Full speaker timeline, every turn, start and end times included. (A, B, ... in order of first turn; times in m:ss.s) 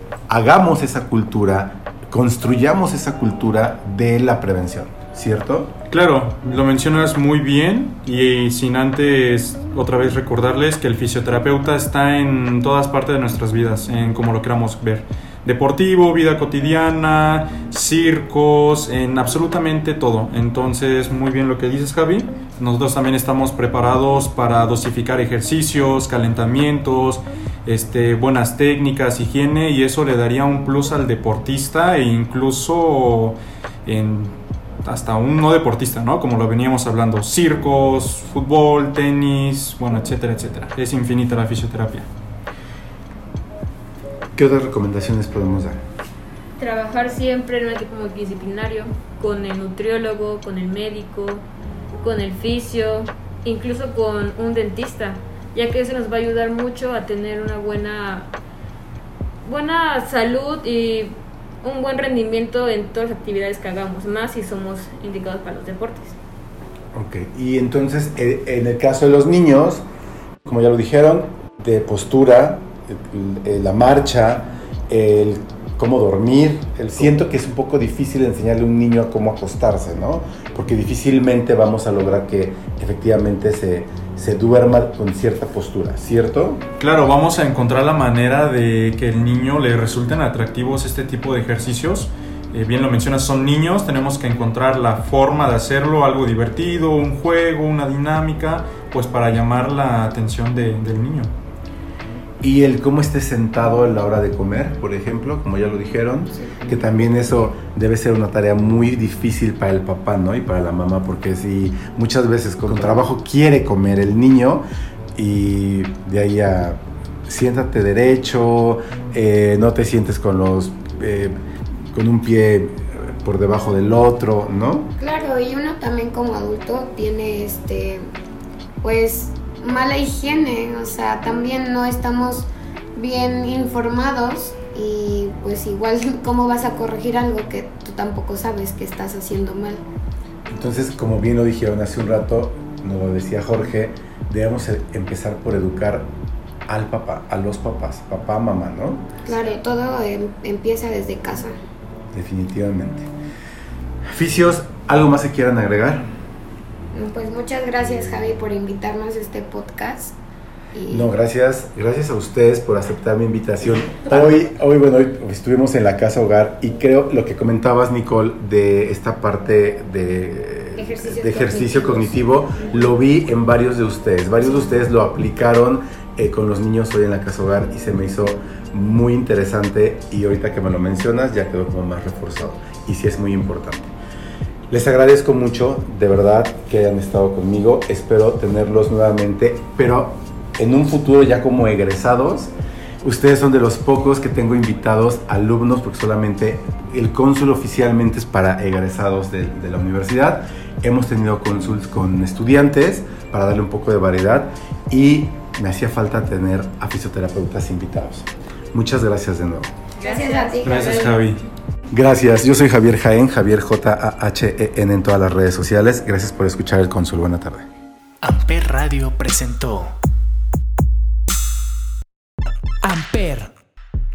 0:00.3-0:05.7 A
0:05.9-0:42.1 B
0:44.4-0:45.8 A
0:46.6-0:51.4 C
0:52.0-0:58.3 C
0:59.4-1:06.2 C
1:06.9-1:09.8 A
1:10.4-1:26.6 A
1:26.8-1:41.3 B
1:42.4-2:04.9 A
2:05.0-2:08.1 D
2:08.8-2:19.8 D
2:20.5-2:26.1 A
2:26.7-2:29.1 A
2:29.2-2:31.6 D
2:32.1-2:33.1 A
2:34.1-2:36.1 A
2:36.9-2:40.2 D
2:40.7-2:41.1 D
2:40.9-3:03.9 A
2:50.8-2:53.0 D
2:54.4-2:54.8 D
3:04.7-3:29.7 A
3:30.0-3:31.2 C
3:30.0-3:31.2 D
3:30.6-3:31.4 B
3:31.9-3:37.7 A
3:38.2-3:39.9 E
3:42.8-3:43.5 E